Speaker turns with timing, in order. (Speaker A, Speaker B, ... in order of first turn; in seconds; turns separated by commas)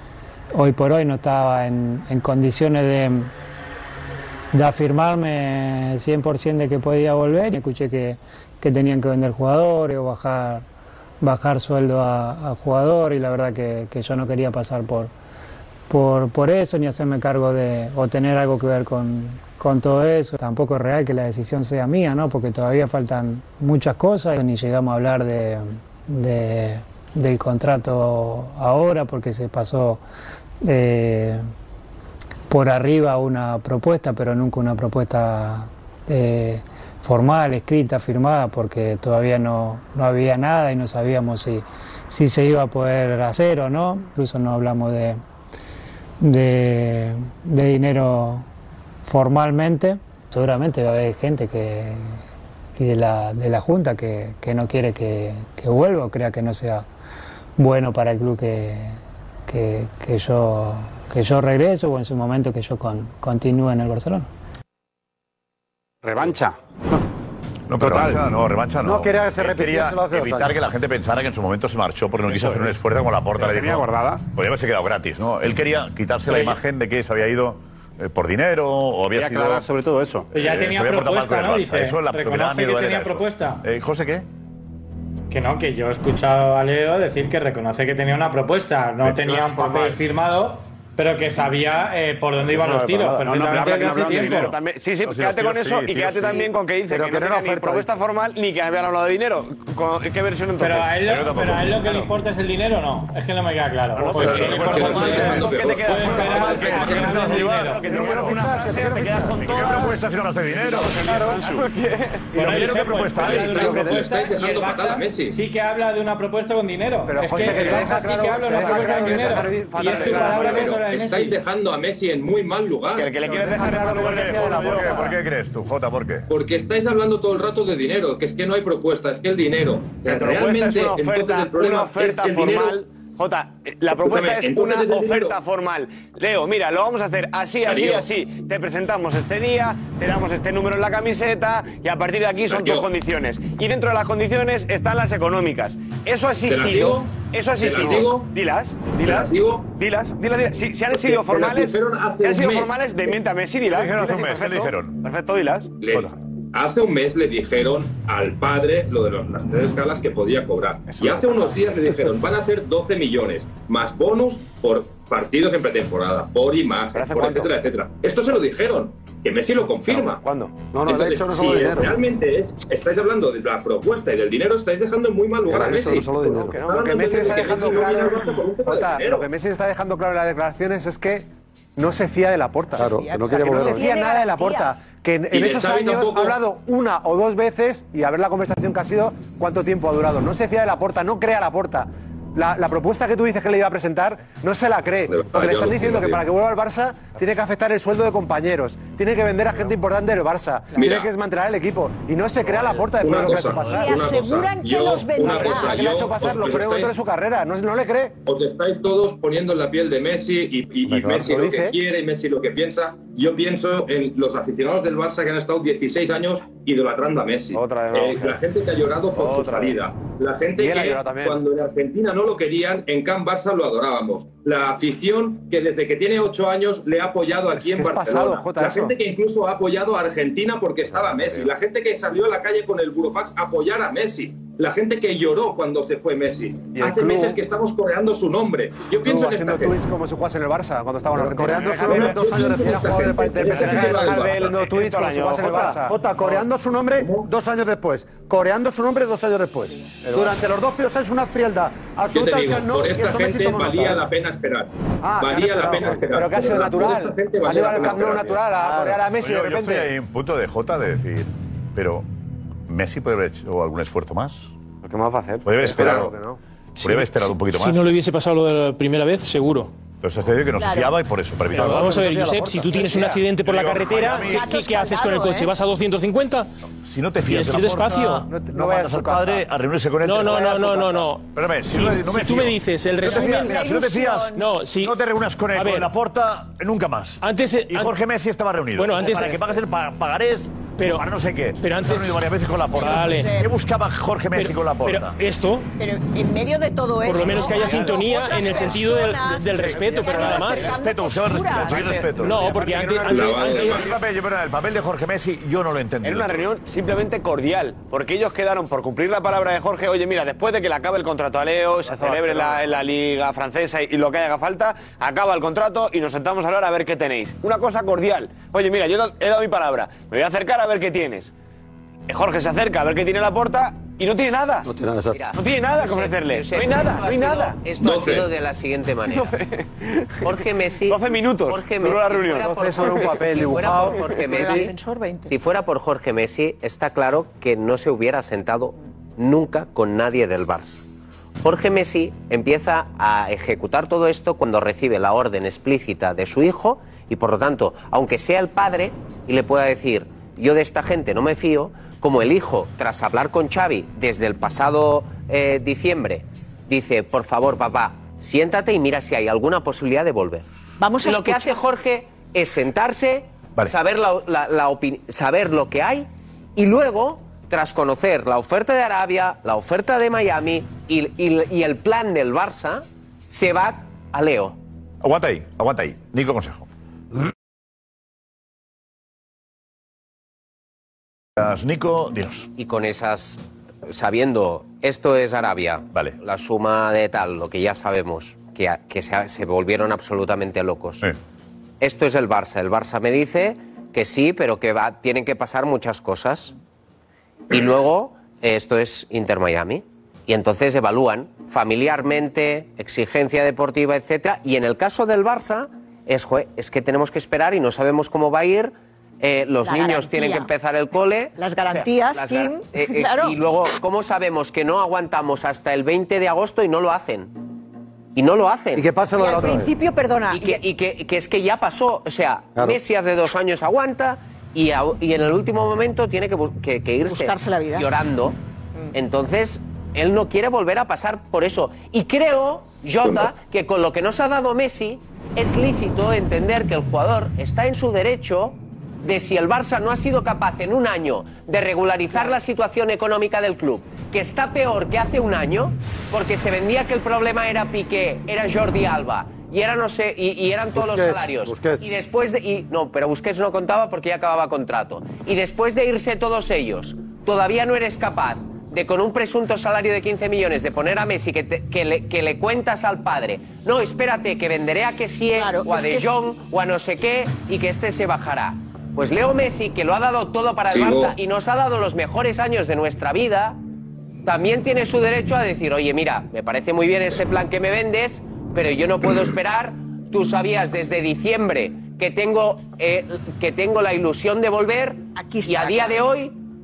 Speaker A: 0.5-3.3, Speaker A: 4.5-10.7, Speaker A: 11.2-15.1, Speaker A: 15.9-30.0, Speaker A: 30.6-31.5, Speaker A: 32.5-45.2, Speaker A: 46.2-48.5, Speaker A: 49.0-52.2, Speaker A: 52.8-56.9, Speaker A: 57.6-64.3, Speaker B: 66.0-67.0, Speaker C: 67.7-79.7, Speaker B: 67.8-68.3, Speaker D: 68.8-70.5, Speaker B: 72.2-72.8, Speaker B: 73.3-74.2, Speaker E: 76.3-76.6, Speaker B: 79.1-80.3, Speaker E: 80.3-83.6, Speaker C: 80.3-84.3, Speaker E: 85.3-94.5, Speaker C: 89.0-89.4, Speaker B: 92.5-94.6, Speaker F: 92.6-93.0, Speaker F: 93.8-101.0, Speaker C: 95.0-96.5, Speaker D: 96.9-97.9, Speaker E: 100.6-107.8, Speaker C: 101.0-102.0, Speaker F: 104.0-110.0, Speaker G: 104.1-107.2, Speaker C: 104.2-108.5, Speaker H: 107.9-109.3, Speaker D: 108.0-109.3, Speaker C: 109.4-111.1, Speaker B: 110.5-111.7, Speaker F: 110.6-114.1, Speaker C: 112.3-114.0, Speaker E: 112.4-121.4, Speaker G: 113.1-115.4, Speaker H: 117.1-120.8, Speaker F: 117.4-118.0, Speaker F: 118.5-120.6, Speaker G: 119.8-123.2, Speaker F: 123.0-125.1, Speaker H: 123.3-125.1, Speaker C: 123.8-126.3, Speaker G: 126.3-132.8, Speaker F: 130.0-155.8, Speaker G: 133.9-135.4, Speaker G: 137.7-138.1, Speaker G: 142.5-142.9, Speaker G: 146.5-148.3, Speaker G: 149.0-149.7, Speaker G: 150.9-152.8, Speaker C: 153.7-155.0, Speaker G: 155.8-170.2, Speaker F: 161.1-161.5, Speaker F: 166.9-167.5, Speaker F: 169.9-170.6, Speaker D: 170.6-171.9, Speaker G: 170.8-179.3, Speaker D: 175.5-176.6, Speaker F: 176.5-177.7, Speaker H: 176.7-203.9, Speaker D: 182.8-183.8, Speaker I: 183.0-184.8, Speaker G: 185.3-186.4, Speaker G: 195.1-196.2, Speaker G: 200.7-201.1, Speaker G: 202.5-207.0, Speaker I: 203.6-205.8, Speaker H: 205.2-208.2, Speaker G: 208.2-239.8, Speaker D: 210.9-211.2, Speaker H: 211.0-211.8, Speaker F: 217.5-218.4, Speaker F: 219.2-219.8, Speaker H: 227.6-228.9, Speaker H: 236.8-237.3, Speaker H: 239.0-245.9, Speaker D: 241.1-243.7, Speaker G: 241.5-244.6, Speaker F: 241.5-242.1, Speaker F: 243.4-245.8, Speaker D: 245.5-254.0, Speaker G: 247.0-247.3, Speaker H: 250.1-250.4, Speaker G: 252.1-258.5, Speaker D: 255.0-256.2, Speaker H: 255.4-259.9, Speaker D: 258.5-259.0, Speaker C: 259.2-262.1, Speaker C: 262.7-264.5, Speaker C: 265.4-266.1, Speaker H: 265.6-266.4, Speaker D: 265.8-266.1, Speaker J: 266.8-269.7, Speaker C: 266.8-267.9, Speaker C: 270.0-274.5, Speaker K: 270.6-270.9, Speaker J: 271.5-276.5, Speaker D: 271.7-273.1, Speaker K: 274.3-275.4, Speaker I: 274.5-275.4, Speaker C: 276.8-295.2, Speaker J: 277.2-278.3, Speaker H: 278.3-279.4, Speaker J: 280.0-283.7, Speaker H: 280.6-280.9, Speaker K: 283.1-284.3, Speaker J: 284.3-285.0, Speaker J: 285.5-285.9, Speaker J: 287.2-288.0, Speaker J: 288.8-289.5, Speaker J: 290.8-291.1, Speaker J: 291.6-293.4, Speaker K: 292.8-293.4, Speaker J: 294.3-295.7, Speaker K: 295.8-301.8, Speaker J: 297.0-300.8, Speaker C: 300.3-302.6, Speaker I: 300.3-300.6, Speaker F: 301.8-303.3, Speaker J: 302.1-303.9, Speaker G: 303.1-303.9, Speaker C: 303.4-306.6, Speaker F: 306.0-321.3, Speaker H: 312.0-312.6, Speaker F: 322.1-324.7, Speaker D: 324.7-325.2, Speaker L: 325.1-329.4, Speaker F: 325.4-327.6, Speaker G: 327.8-328.3, Speaker F: 329.1-330.3, Speaker L: 330.2-334.8, Speaker F: 330.9-333.3, Speaker H: 332.5-334.7, Speaker I: 334.2-335.3, Speaker L: 335.3-340.8, Speaker L: 341.4-360.5, Speaker I: 360.8-361.6, Speaker L: 361.0-374.6, Speaker C: 375.0-376.7, Speaker C: 381.4-382.5, Speaker L: 382.6-391.1, Speaker L: 391.8-396.6, Speaker L: 397.5-417.4, Speaker I: 409.7-410.5, Speaker I: 411.4-413.3, Speaker L: 418.1-418.9, Speaker D: 418.8-419.7, Speaker I: 419.1-420.6, Speaker L: 420.3-428.4, Speaker I: 427.1-427.9, Speaker L: 428.9-473.6, Speaker D: 450.8-451.9, Speaker I: 465.4-466.1, Speaker G: 470.7-471.1, Speaker L: 474.2-486.4, Speaker I: 485.1-486.0